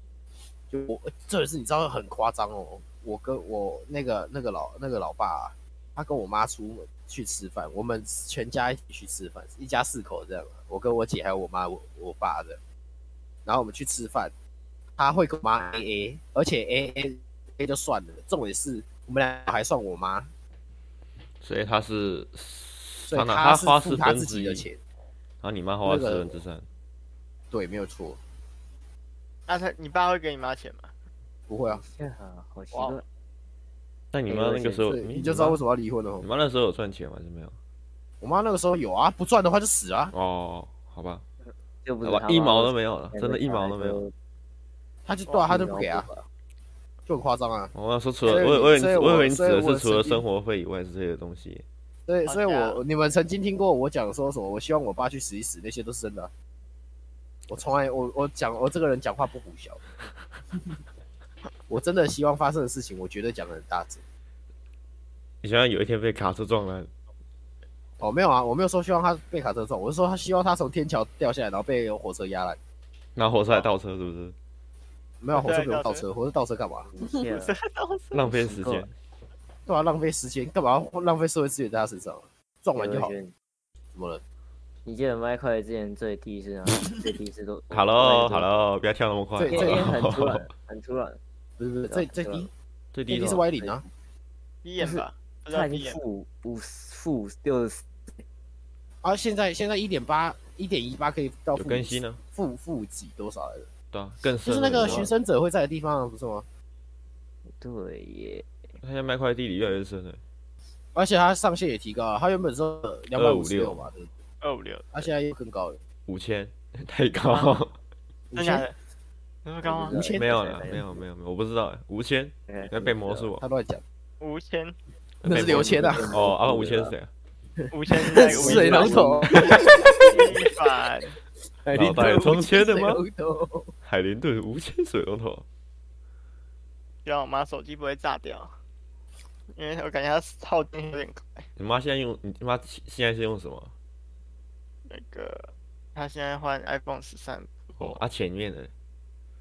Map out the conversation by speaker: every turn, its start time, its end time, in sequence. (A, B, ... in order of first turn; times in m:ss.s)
0:00.7-0:12.6 A
0:13.4-0:14.3 A
0:15.0-0:20.3 A
0:21.4-0:24.6 B
0:23.1-0:24.8 A
0:25.4-0:26.6 B
0:25.8-0:26.4 A
0:27.5-0:28.2 A
0:29.5-0:30.9 C
0:31.5-0:31.8 A
0:31.7-0:33.0 D
0:32.7-0:33.0 C
0:34.1-0:35.6 B
0:34.3-0:34.9 D
0:34.8-0:36.2 A
0:36.2-0:37.5 B
0:38.2-0:40.1 A
0:40.1-0:41.2 B
0:41.8-0:44.1 D
0:42.0-0:44.0 B
0:45.0-0:46.1 A
0:45.3-0:45.6 C
0:45.5-0:46.2 D
0:47.0-0:50.2 A
0:47.7-0:51.6 B
0:52.0-0:56.3 A
0:52.2-0:52.8 C
0:57.5-0:59.8 A
1:01.7-1:04.0 A
1:05.4-1:06.9 B
1:08.0-1:12.6 A
1:13.2-1:14.4 B
1:15.2-1:16.9 A
1:15.3-1:16.0 C
1:16.9-1:17.6 D
1:17.3-1:18.3 C
1:18.1-1:18.9 B
1:18.2-1:18.9 D
1:19.6-1:23.1 A
1:22.7-1:23.3 D
1:23.9-1:24.2 A
1:24.8-1:28.5 D
1:27.7-1:30.5 B
1:29.4-1:29.9 A
1:29.4-1:31.2 D
1:31.6-1:32.5 A
1:31.9-1:32.5 D
1:32.9-1:33.5 B
1:33.1-1:33.9 A
1:34.6-1:36.0 C
1:34.8-1:37.9 D
1:39.0-1:43.7 A
1:41.5-1:42.2 B
1:43.9-1:45.1 B
1:44.4-1:46.5 A
1:44.8-1:45.1 D
1:47.6-1:48.4 D
1:48.8-1:50.2 B
1:50.9-1:54.1 A
1:53.2-1:53.9 B
1:54.4-1:55.1 C
1:54.9-1:55.8 A
1:56.1-1:57.8 B
1:57.3-1:57.6 C
1:58.3-1:58.7 A
1:58.3-1:58.7 C
1:59.4-2:00.0 C
1:59.6-2:00.2 A
1:59.8-2:00.8 D
2:00.1-2:03.4 B
2:02.5-2:03.3 D
2:03.4-2:03.8 A
2:04.2-2:04.7 C
2:05.2-2:07.1 B
2:05.2-2:06.2 A
2:05.3-2:06.9 D
2:07.6-2:10.2 A
2:07.7-2:11.2 C
2:08.2-2:10.2 D
2:09.4-2:09.7 B
2:11.6-2:13.7 A
2:11.7-2:13.0 B
2:13.8-2:15.4 B
2:17.0-2:18.5 C
2:19.5-2:21.4 C
2:21.6-2:23.7 B
2:24.8-2:28.0 C
2:27.8-2:28.7 B